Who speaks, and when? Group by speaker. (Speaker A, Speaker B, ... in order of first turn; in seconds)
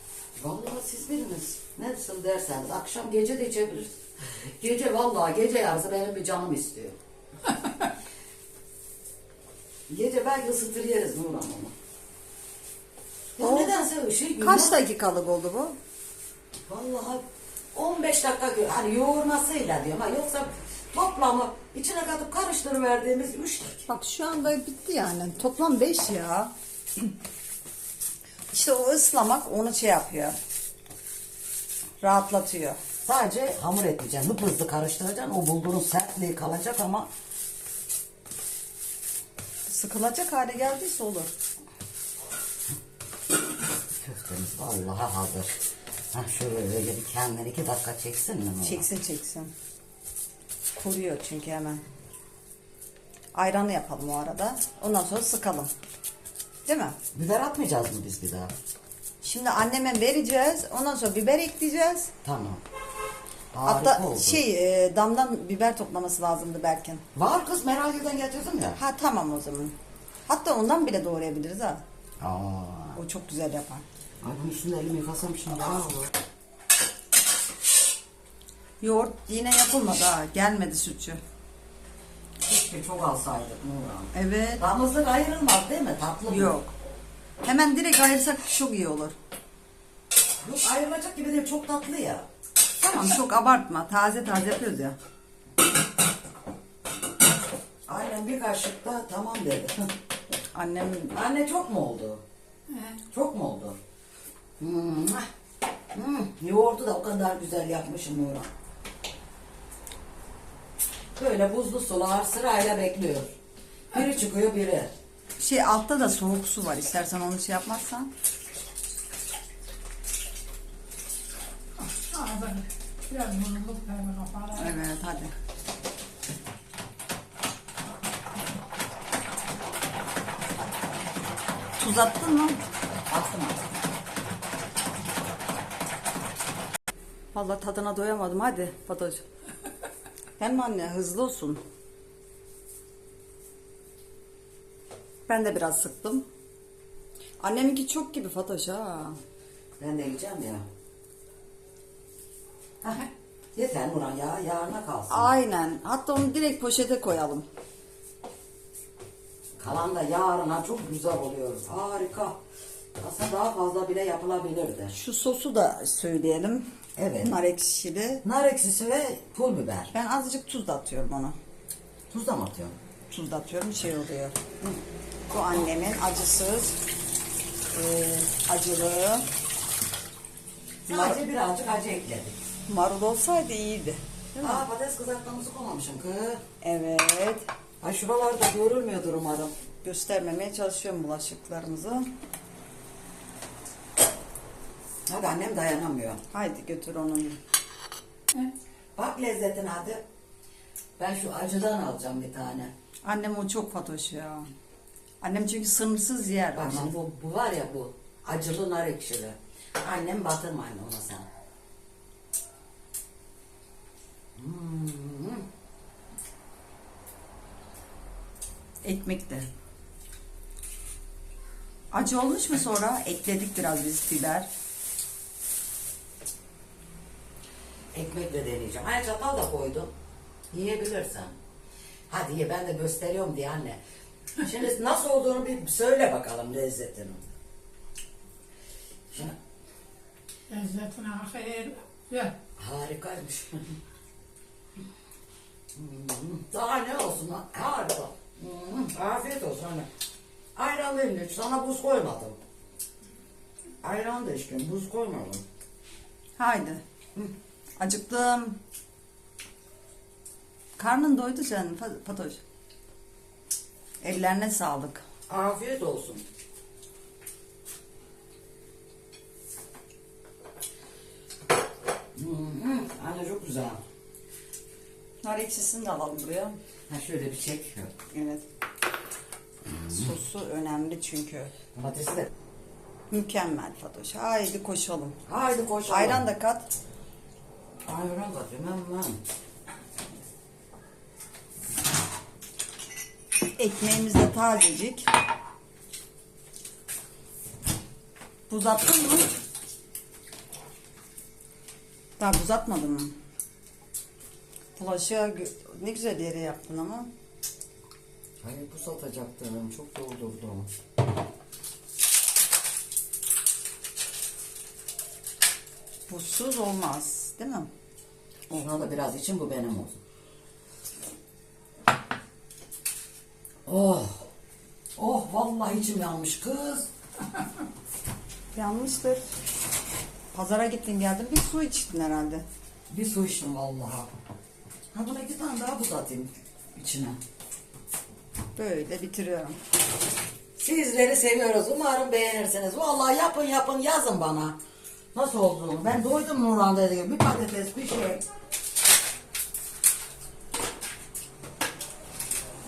Speaker A: 0.4-7.0, 9.9-11.7, 13.4-14.8, 16.7-23.9, 33.0-37.1, 44.0-45.6, 46.1-48.9, 57.1-58.5, 62.2-62.6, 63.5-64.4, 67.1-68.8, 72.2-73.0, 74.2-76.1, 82.5-86.5, 90.4-92.3, 97.9-99.9, 101.1-102.2, 103.1-103.8, 104.6-105.3, 105.9-108.5, 111.2-113.3, 113.9-114.9, 133.1-133.6, 149.8-150.7, 152.8-155.3, 159.6-162.4, 163.0-165.0, 166.9-167.3, 168.2-169.9, 172.1-172.8, 180.9-182.4, 184.4-186.4, 187.8-189.5, 195.1-196.2, 198.9-200.0, 201.0-202.7, 206.6-211.3, 214.4-215.4, 227.9-229.9, 230.5-231.4, 232.1-233.8, 234.4-237.2, 239.1-239.4, 242.6-243.7, 245.7-249.9, 250.6-252.4, 253.8-255.4, 265.3-266.2, 272.1-273.8, 276.9-277.9, 279.7-280.1, 281.7-282.3, 285.3-286.2, 287.9-289.2, 308.4-310.7, 318.5-320.0, 323.6-324.2, 325.0-326.9, 332.9-334.1, 334.9-337.2, 340.6-344.6, 345.1-348.2
Speaker B: 13.4-13.7, 14.4-15.8, 23.9-27.0, 28.5-30.4, 32.0-32.8, 39.7-41.3, 48.6-49.5, 50.7-51.8, 53.3-55.7, 56.6-57.0, 59.2-62.1, 63.6-67.0, 68.8-69.8, 70.3-71.8, 73.0-73.8, 78.8-81.2, 84.1-84.6, 86.3-86.7, 87.4-89.2, 92.8-95.0, 100.5-101.1, 115.4-118.1, 124.6-125.3, 131.8-132.6, 137.3-139.2, 140.4-141.6, 145.3-146.3, 147.4-149.2, 155.1-157.5, 165.0-166.7, 167.2-168.2, 169.9-171.4, 173.1-174.4, 175.3-176.8, 177.7-179.3, 180.9-181.2, 182.7-184.6, 186.6-187.5, 189.8-192.1, 196.3-197.4, 203.0-204.5, 205.2-206.9, 218.8-219.5, 221.9-224.5, 256.4-256.8, 257.8-258.6, 260.8-262.4, 264.0-265.0, 275.2-276.6, 278.1-278.4, 279.9-281.5, 283.1-285.2, 285.9-286.7, 293.6-295.1, 298.5-299.4, 302.2-303.1, 304.8-307.1, 316.1-317.7, 328.5-329.3, 330.3-332.4, 338.6-339.6
Speaker C: 102.7-103.0, 121.8-124.8, 240.5-242.4